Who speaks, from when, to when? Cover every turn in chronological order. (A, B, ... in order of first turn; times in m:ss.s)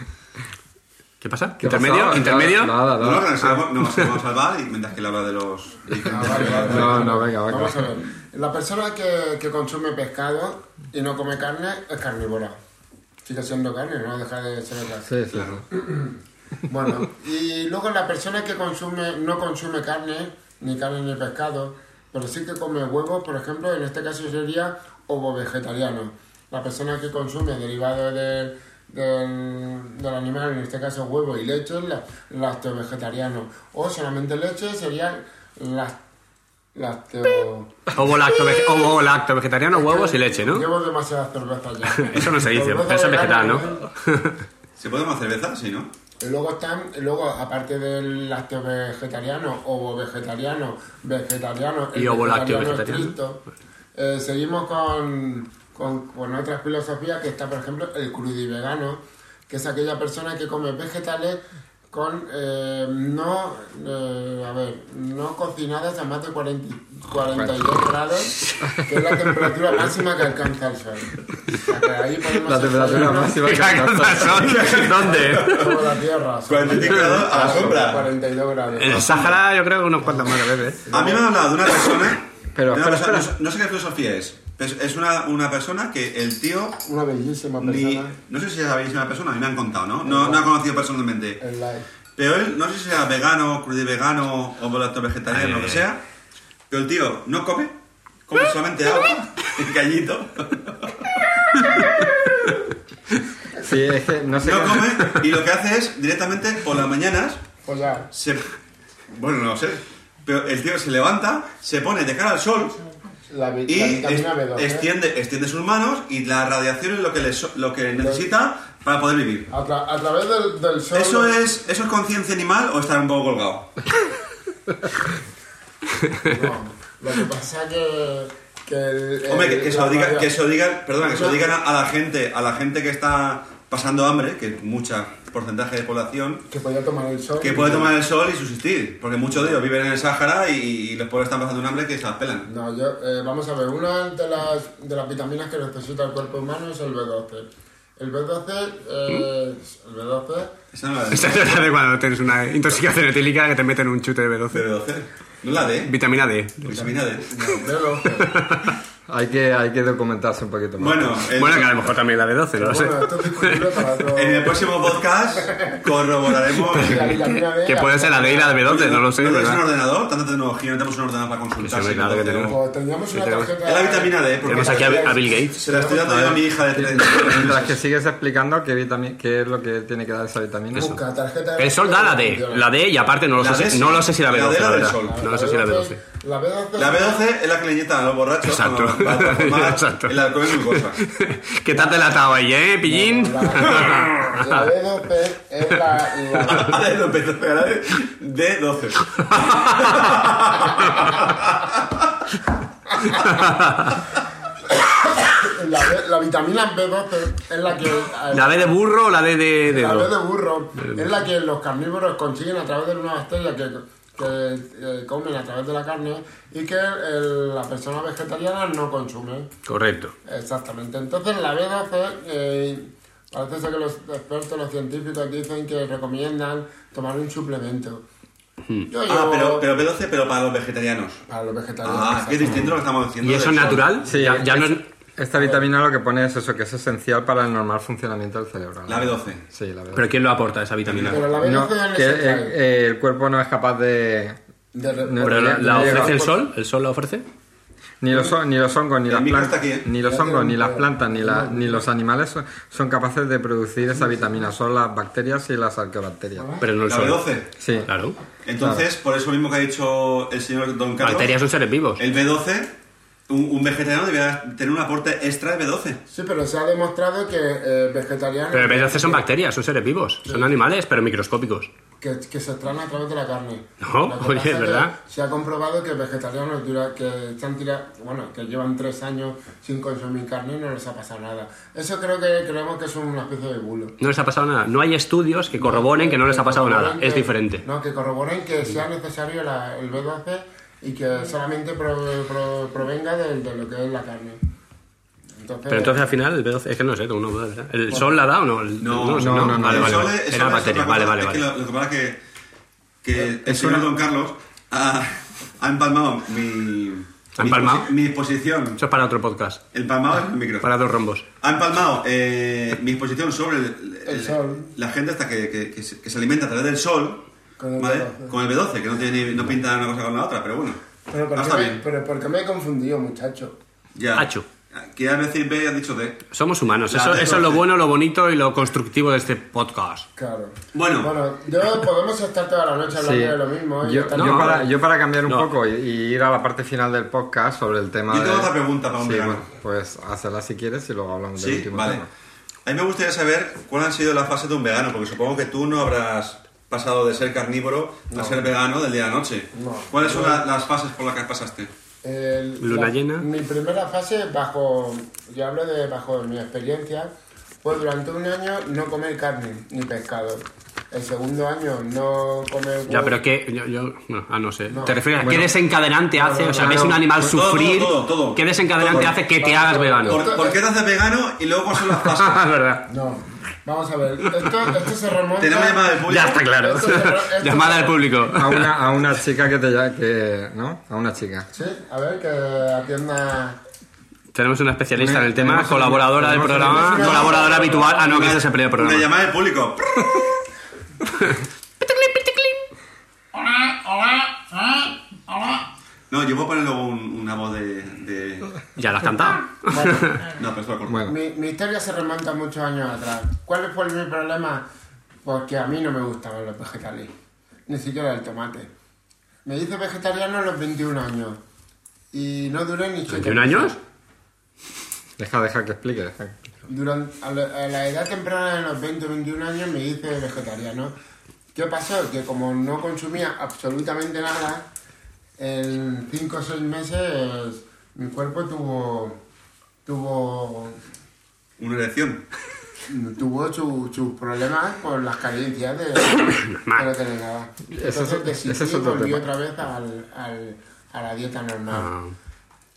0:01.2-0:02.8 A
0:01.6-0:03.5 B
0:02.9-0:07.1 C
0:03.4-0:04.1 A
0:06.1-0:12.6 D
0:06.3-0:07.9 B
0:13.2-0:36.0 D
0:15.1-0:15.6 B
0:36.7-0:37.8 D
0:37.9-0:40.7 A
0:39.8-0:43.9 D
0:41.9-0:44.4 A
0:44.8-0:45.9 C
0:46.2-0:53.4 D
0:52.0-0:53.2 A
0:54.0-1:13.6 D
1:07.3-1:07.6 B
1:12.4-1:14.7 B
1:13.1-1:15.8 A
1:14.3-1:15.9 C
1:15.0-1:19.4 D
1:16.5-1:18.1 C
1:16.8-1:17.7 A
1:18.8-1:20.8 A
1:20.8-1:21.4 D
1:20.9-1:26.8 C
1:22.6-1:23.3 B
1:26.8-1:28.2 D
1:27.6-1:31.4 C
1:30.0-1:30.5 D
1:31.4-1:31.9 D
1:32.2-1:36.0 C
1:35.3-1:35.8 A
1:36.7-1:37.8 C
1:38.3-1:41.2 C
1:43.6-1:45.0 B
1:44.4-1:47.4 C
1:47.6-1:48.1 D
1:48.1-1:48.5 C
1:49.1-1:52.8 C
1:53.3-1:54.9 D
1:53.7-1:59.5 C
1:58.0-1:58.3 D
1:59.5-2:01.4 D
2:00.9-2:03.7 C
2:06.2-2:10.3 D
2:09.3-2:16.5 C
2:11.0-2:11.5 D
2:16.5-2:17.9 D
2:17.4-2:22.5 C
2:22.5-2:30.5 D
2:30.7-2:31.7 C
2:31.1-2:34.7 A
2:34.5-2:35.9 C
2:35.8-2:37.0 A
2:36.7-2:37.3 C
2:36.8-2:38.4 D
2:38.2-2:38.8 A
2:39.1-2:41.3 B
2:40.8-2:41.9 C
2:41.4-2:43.7 A
2:42.6-2:45.9 D
2:44.1-2:47.2 C
2:46.7-2:48.7 D
2:46.7-2:49.6 A
2:48.6-2:52.6 C
2:51.6-2:52.6 A
2:52.5-2:56.4 D
2:53.1-2:53.5 A
2:53.6-2:57.8 C
2:54.5-2:55.6 A
2:56.7-3:00.9 B
3:00.7-3:02.7 D
3:01.6-3:06.0 A
3:03.4-3:05.2 C
3:05.0-3:07.2 D
3:06.8-3:11.0 C
3:08.4-3:14.6 A
3:11.7-3:12.0 D
3:12.8-3:16.8 D
3:16.4-3:22.1 C
3:19.4-3:20.1 A
3:23.0-3:23.3 D
3:23.1-3:24.0 A
3:24.7-3:28.7 D
3:28.3-3:30.1 A
3:29.7-3:39.5 D
3:30.8-3:31.0 A
3:39.7-3:40.1 A
3:40.3-3:48.0 D
3:48.9-3:49.7 D
3:49.1-3:51.2 C
3:51.3-3:52.8 D
3:51.8-3:54.1 C
3:53.2-3:54.9 A
3:54.1-4:00.0 B
3:55.4-3:55.7 D
3:58.9-3:59.4 C
3:59.9-4:01.3 A
4:00.8-4:01.2 C
4:01.1-4:02.6 D
4:01.4-4:04.4 B
4:04.7-4:06.4 D
4:05.1-4:06.3 B
4:05.2-4:07.2 A
4:08.0-4:16.5 B
4:09.1-4:09.9 C
4:10.0-4:11.8 D
4:13.9-4:14.5 D
4:16.4-4:16.7 D
4:16.6-4:17.3 A
4:16.9-4:17.5 C
4:17.6-4:17.9 B
4:17.9-4:18.2 A
4:18.4-4:21.4 C
4:18.6-4:18.8 B
4:21.0-4:22.0 A
4:22.0-4:22.8 C
4:23.3-4:26.0 C
4:26.1-4:29.3 D
4:28.5-4:31.7 A
4:30.2-4:30.5 D
4:32.0-4:44.0 D
4:33.8-4:34.9 A
4:44.0-4:47.6 A
4:45.6-4:54.4 D
4:55.4-4:56.1 D
4:55.7-5:01.5 A
4:58.8-5:02.2 C
4:59.2-5:00.1 B
5:03.0-5:08.8 C
5:03.5-5:03.9 B
5:07.4-5:07.9 A
5:08.8-5:09.6 A
5:09.7-5:10.7 C
5:10.6-5:11.2 A
5:11.4-5:17.2 C
5:14.1-5:14.7 D
5:17.6-5:18.4 D
5:17.8-5:20.8 C
5:21.1-5:23.6 D
5:21.4-5:21.8 C
5:24.0-5:26.3 C
5:24.2-5:24.4 A
5:26.3-5:30.1 A
5:26.9-5:27.6 C
5:30.2-5:34.7 D
5:30.7-5:31.2 C
5:33.0-5:42.1 B
5:34.2-5:34.6 A
5:38.1-5:39.5 C
5:41.4-5:42.0 C
5:42.6-5:51.7 C
5:48.1-5:48.5 D
5:49.5-5:50.4 D
5:52.0-6:03.2 D
5:52.6-5:53.3 A
6:02.9-6:10.3 A
6:04.7-6:05.4 D
6:06.1-6:07.0 D
6:06.6-6:07.3 B
6:07.2-6:09.2 C
6:09.2-6:10.6 D
6:10.1-6:12.4 C
6:11.7-6:12.9 A
6:12.9-6:18.0 D
6:15.4-6:16.4 C
6:16.1-6:18.7 A
6:18.3-6:21.5 B
6:21.5-6:23.6 D
6:24.3-6:29.1 A
6:25.0-6:27.3 B
6:26.6-6:28.1 D
6:27.0-6:30.1 C
6:31.9-6:32.5 A
6:33.6-6:34.3 D
6:36.1-6:38.6 C
6:38.8-6:40.2 A
6:39.7-6:40.2 D
6:40.3-6:41.0 C
6:40.9-6:41.1 B
6:41.0-6:44.7 D
6:45.2-6:47.1 D
6:47.7-6:48.7 D
6:49.4-6:51.4 D
6:52.1-6:53.8 D
6:53.1-6:53.8 A
6:55.2-6:56.4 B
6:56.7-7:00.9 D
7:01.6-7:04.7 D
7:05.4-7:09.2 D
7:09.8-7:10.8 D
7:11.6-7:12.2 C
7:12.9-7:21.9 D
7:16.3-7:16.8 A
7:17.7-7:19.3 B
7:21.7-7:22.1 A